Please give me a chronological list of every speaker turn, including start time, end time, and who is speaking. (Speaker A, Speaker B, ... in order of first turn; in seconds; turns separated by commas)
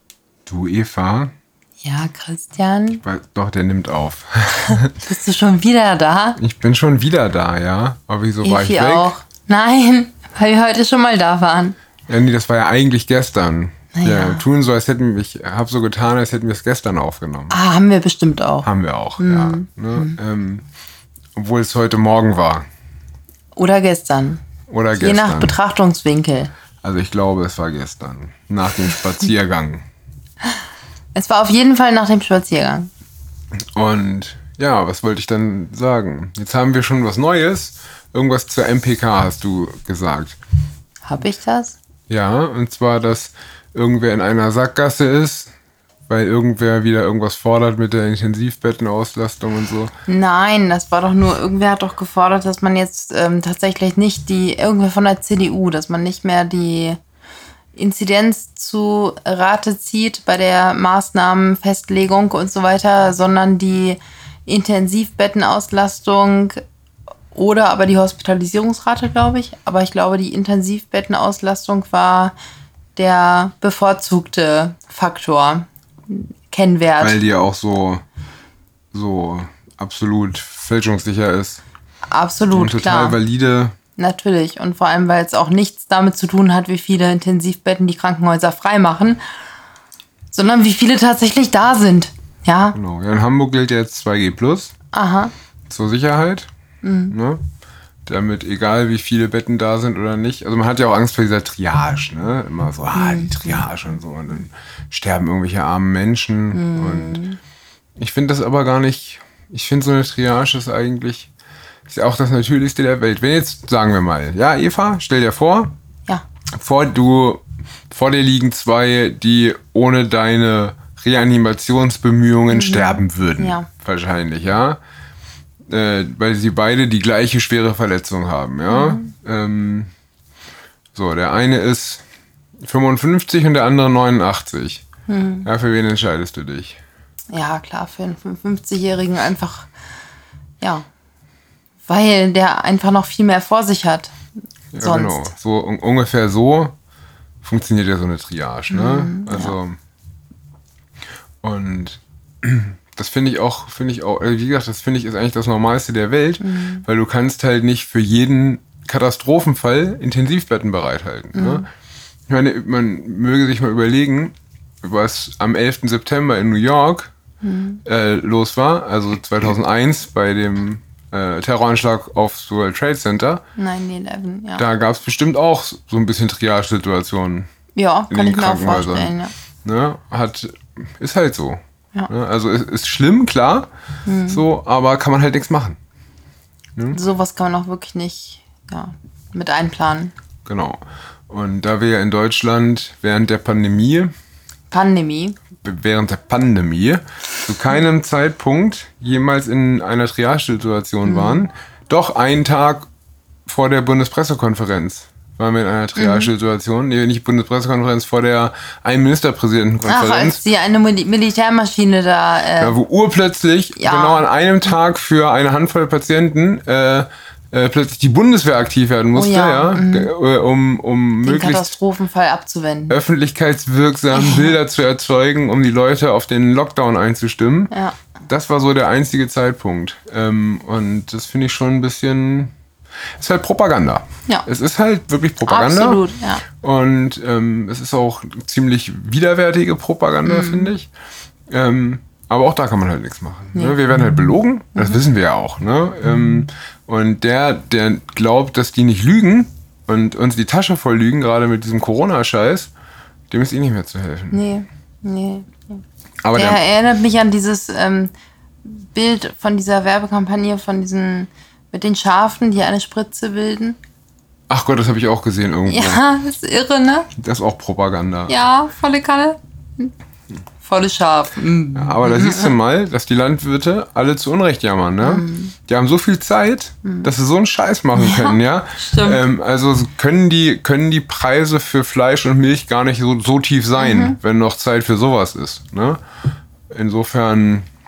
Speaker A: 0.5-1.3, Speaker B: 1.8-3.0, Speaker A: 2.9-4.9, Speaker B: 4.9-6.4, Speaker A: 6.4-9.1, Speaker B: 8.4-11.7, Speaker A: 12.1-17.6, Speaker B: 13.9-14.4, Speaker B: 17.5-18.7, Speaker A: 18.6-20.6, Speaker B: 19.2-20.2, Speaker A: 21.3-22.6, Speaker B: 23.5-24.4, Speaker A: 24.7-25.6, Speaker B: 24.9-26.5, Speaker A: 26.8-29.8, Speaker B: 31.1-32.9, Speaker A: 33.7-40.4, Speaker B: 41.0-41.8, Speaker A: 42.1-45.5, Speaker A: 46.1-49.9, Speaker B: 50.1-57.0, Speaker B: 57.7-66.6, Speaker B: 67.3-72.3, Speaker B: 73.0-77.2, Speaker A: 77.0-78.0, Speaker A: 78.9-81.6, Speaker B: 82.1-83.2, Speaker A: 82.5-83.8, Speaker B: 84.0-89.2, Speaker B: 90.3-92.8, Speaker A: 92.7-94.7, Speaker B: 94.9-95.3, Speaker A: 95.7-96.5, Speaker B: 96.8-97.1, Speaker A: 97.1-97.4, Speaker A: 98.0-107.2, Speaker B: 102.9-103.7, Speaker B: 106.5-107.4, Speaker A: 108.0-111.3, Speaker A: 111.9-115.7, Speaker A: 116.5-124.8, Speaker B: 122.5-123.7, Speaker A: 125.7-129.9, Speaker B: 128.7-129.1, Speaker A: 130.9-132.0, Speaker A: 132.6-134.8, Speaker B: 135.1-135.5, Speaker A: 135.4-136.8, Speaker B: 137.3-139.7, Speaker B: 140.6-140.8, Speaker B: 141.8-144.1, Speaker A: 144.7-146.7, Speaker B: 144.8-145.3, Speaker A: 147.4-149.8, Speaker B: 148.7-149.6, Speaker A: 151.4-161.6, Speaker B: 156.4-156.8, Speaker B: 161.3-161.7, Speaker A: 162.3-167.1, Speaker B: 167.4-167.8, Speaker A: 167.8-173.4, Speaker B: 173.6-174.6, Speaker A: 174.6-177.5, Speaker B: 177.7-179.3, Speaker A: 178.1-183.7, Speaker B: 184.0-184.4, Speaker A: 184.3-185.8, Speaker B: 186.9-190.1, Speaker A: 190.4-194.1, Speaker B: 194.7-195.3, Speaker A: 195.6-202.9, Speaker B: 201.1-201.4, Speaker A: 203.4-210.4, Speaker B: 205.9-206.3, Speaker B: 209.8-212.8, Speaker A: 212.6-221.8, Speaker B: 213.8-214.3, Speaker B: 219.1-220.1, Speaker B: 221.2-223.0, Speaker A: 222.9-227.7, Speaker B: 224.1-224.5, Speaker B: 227.7-228.0, Speaker A: 228.3-232.5, Speaker A: 233.2-236.0, Speaker B: 235.4-236.4, Speaker A: 236.6-240.9, Speaker B: 240.2-240.7, Speaker A: 241.5-252.7, Speaker A: 253.3-254.4, Speaker B: 254.3-255.8, Speaker A: 256.2-256.6, Speaker B: 256.3-258.1, Speaker B: 258.6-263.8, Speaker A: 264.5-266.0, Speaker B: 265.6-267.1, Speaker A: 267.1-268.3, Speaker B: 268.3-269.9, Speaker B: 270.6-272.5, Speaker A: 271.8-286.0, Speaker B: 275.0-275.5, Speaker B: 277.9-279.2, Speaker B: 283.8-284.2, Speaker A: 286.7-287.7